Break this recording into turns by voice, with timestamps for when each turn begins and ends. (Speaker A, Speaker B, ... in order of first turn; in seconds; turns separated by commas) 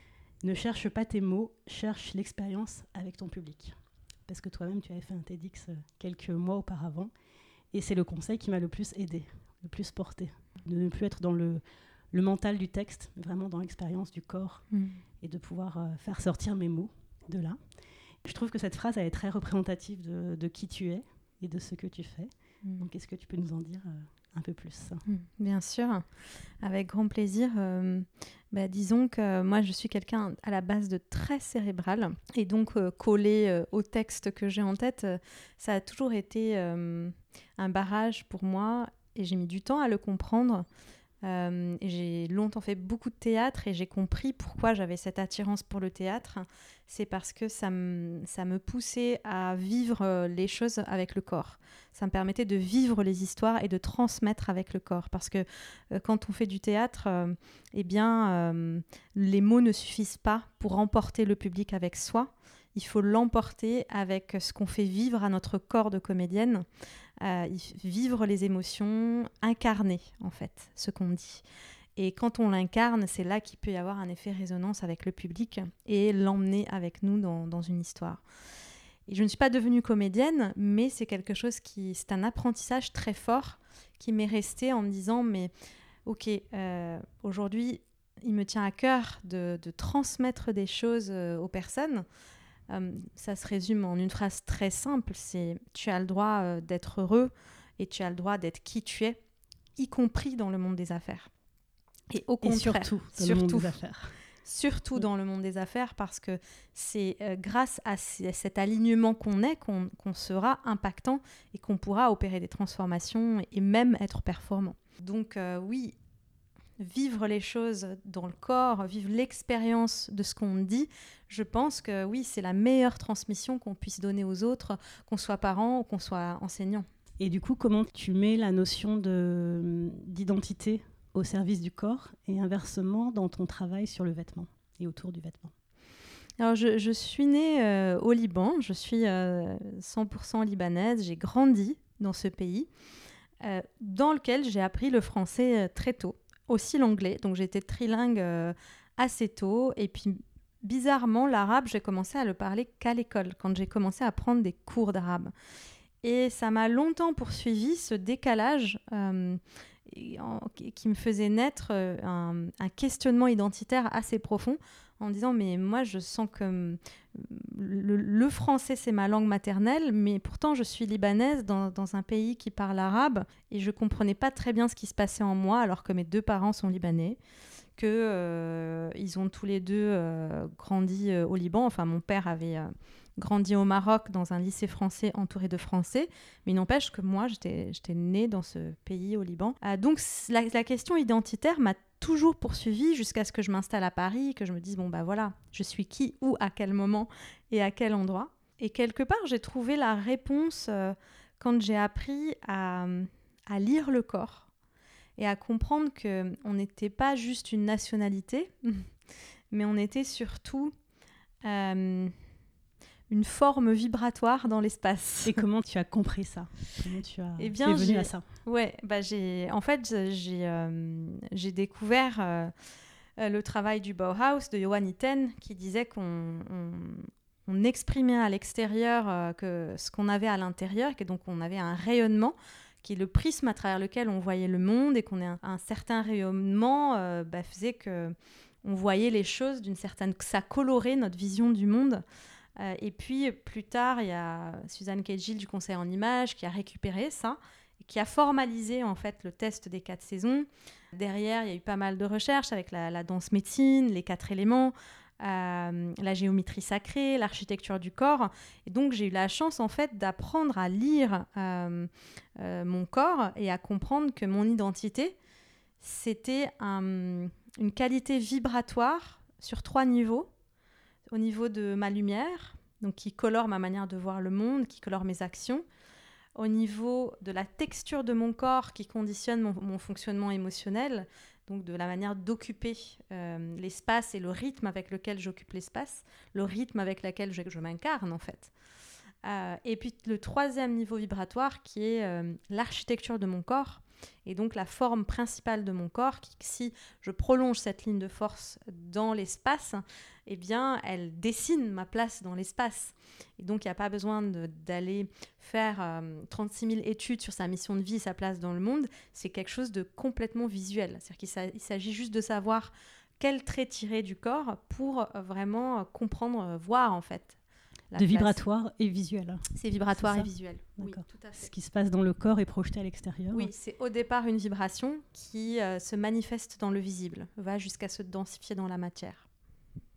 Speaker A: 0.4-3.8, Speaker A: 4.3-7.1, Speaker A: 7.7-14.6, Speaker B: 14.7-15.0, Speaker A: 15.2-17.6, Speaker A: 18.2-25.0, Speaker B: 25.1-26.1, Speaker B: 26.6-40.6, Speaker B: 41.2-66.6, Speaker B: 67.2-71.4, Speaker B: 72.0-78.2, Speaker B: 79.1-85.5, Speaker B: 86.0-92.0, Speaker B: 92.7-99.2, Speaker B: 99.8-101.3, Speaker B: 102.1-103.7, Speaker A: 102.4-104.2, Speaker B: 104.4-116.0, Speaker B: 116.8-126.8, Speaker A: 127.2-135.5, Speaker B: 136.4-142.7, Speaker B: 143.4-155.3, Speaker B: 156.0-177.2, Speaker B: 177.8-204.5, Speaker B: 205.2-208.9, Speaker B: 209.5-210.7, Speaker B: 211.4-212.1, Speaker B: 213.1-215.4, Speaker A: 215.2-218.2, Speaker B: 217.4-222.5, Speaker B: 223.2-242.0, Speaker B: 242.6-265.1, Speaker B: 265.8-270.3, Speaker B: 271.1-275.6, Speaker B: 276.3-288.5, Speaker B: 289.2-317.4, Speaker B: 317.9-318.4, Speaker A: 317.9-323.5, Speaker B: 319.5-321.5, Speaker B: 323.3-329.2